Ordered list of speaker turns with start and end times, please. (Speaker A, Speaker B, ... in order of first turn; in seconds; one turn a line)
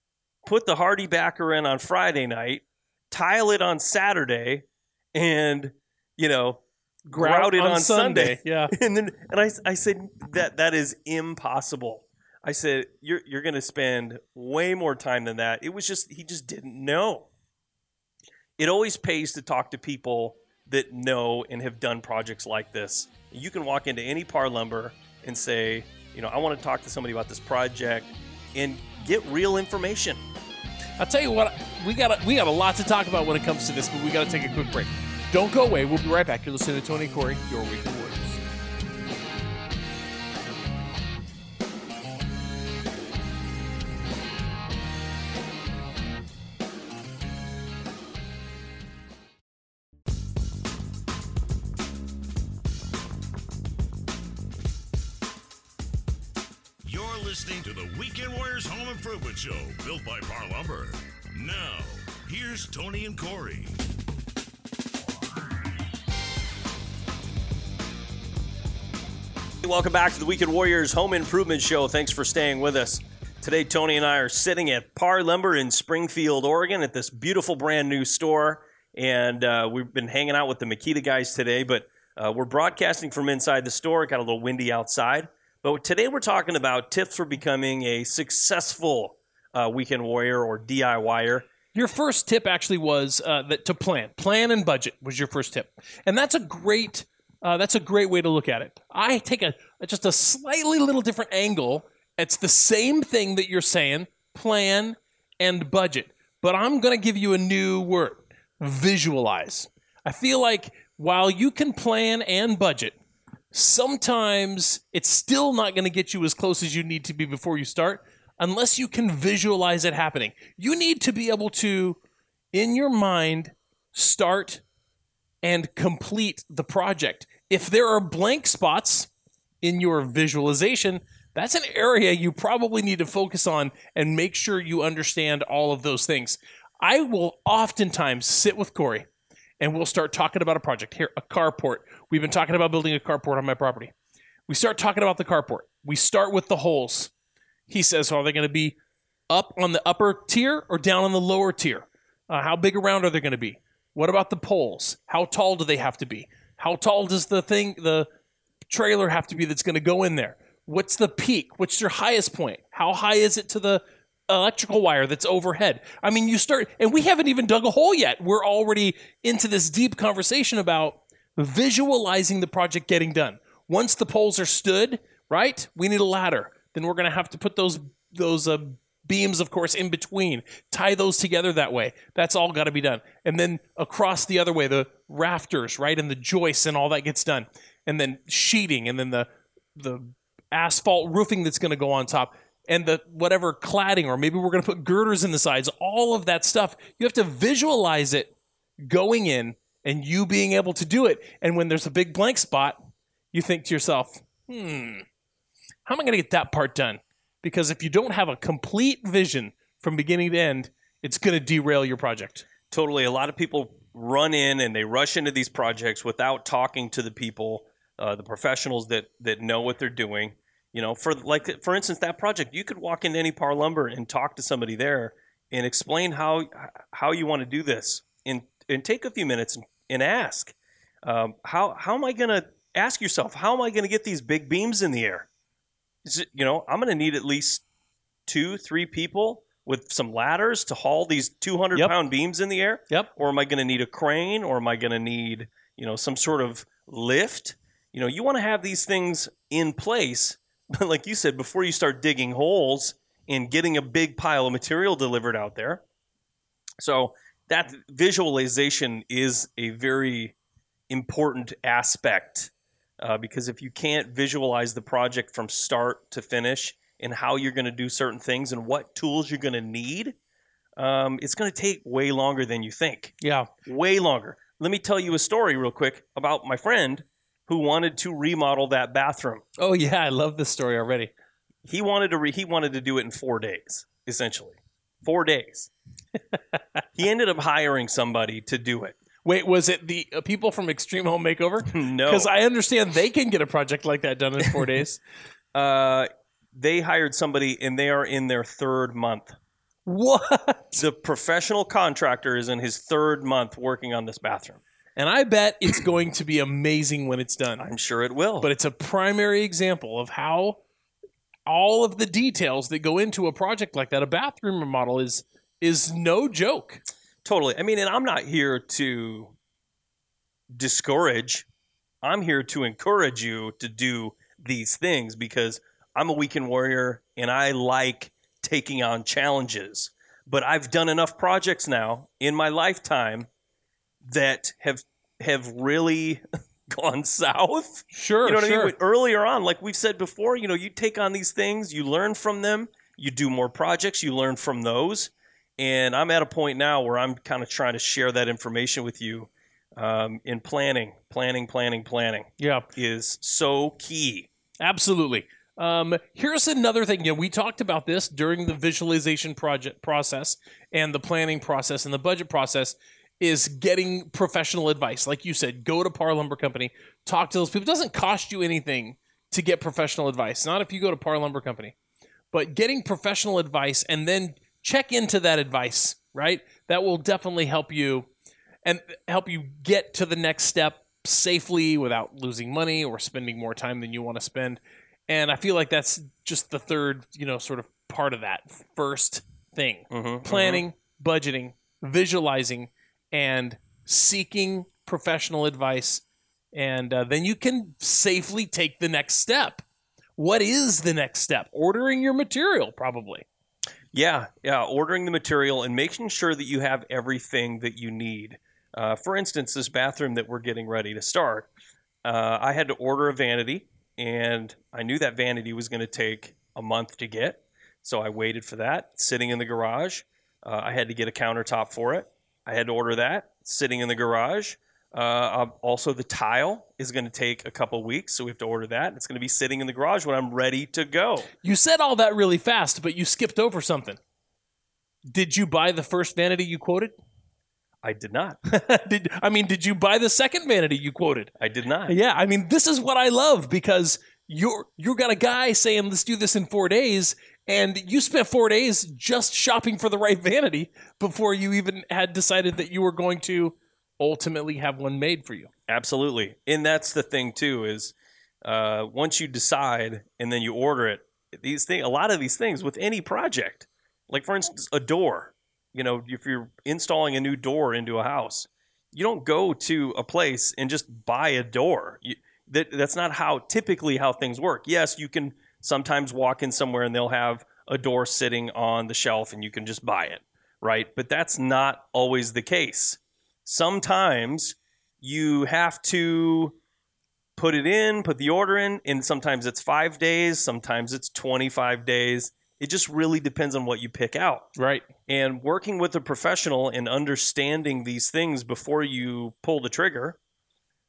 Speaker A: 0.4-17.3
Speaker B: 7.1-8.7
Speaker A: 18.6-30.2
Speaker B: 31.0-38.4
Speaker C: 56.8-63.8
Speaker A: 69.6-91.5
Speaker B: 91.7-112.9
Speaker B: 113.5-122.0
Speaker B: 122.5-124.6
Speaker B: 125.4-129.1
Speaker B: 129.6-139.1
Speaker B: 139.6-143.9
Speaker B: 144.5-147.1
Speaker B: 147.7-148.8
Speaker B: 149.3-158.1
Speaker B: 158.7-202.8
Speaker B: 203.3-205.0
Speaker B: 205.8-212.4
Speaker A: 212.7-235.3
Speaker A: 236.0-237.6
Speaker A: 238.3-255.8
Speaker A: 256.8-260.3
Speaker A: 260.9-270.1
Speaker A: 270.8-279.4
Speaker B: 273.2-273.5
Speaker B: 279.6-281.1
Speaker A: 281.6-285.7
Speaker A: 287.0-288.9
Speaker B: 289.2-295.0
Speaker A: 291.7-292.3
Speaker A: 295.5-299.4
Speaker B: 299.9-300.8
Speaker A: 300.8-304.6
Speaker B: 304.9-307.6
Speaker A: 307.6-308.5
Speaker B: 308.4-310.6
Speaker B: 311.5-316.8
Speaker A: 317.2-319.3
Speaker A: 320.5-321.4
Speaker A: 322.0-333.3
Speaker A: 334.0-354.3
Speaker B: 337.9-338.7
Speaker B: 352.4-352.6
Speaker B: 354.6-371.7
Speaker B: 372.3-378.1
Speaker B: 378.6-399.6
Speaker A: 389.9-390.6
Speaker B: 400.2-403.2
Speaker A: 403.9-411.5
Speaker A: 412.0-431.3
Speaker B: 431.4-434.0
Speaker B: 435.1-436.9
Speaker A: 437.8-438.4
Speaker B: 438.4-441.3
Speaker A: 441.4-441.9
Speaker B: 441.9-455.5
Speaker A: 455.7-486.5
Speaker A: 487.4-494.5
Speaker B: 494.6-494.8
Speaker A: 495.1-500.2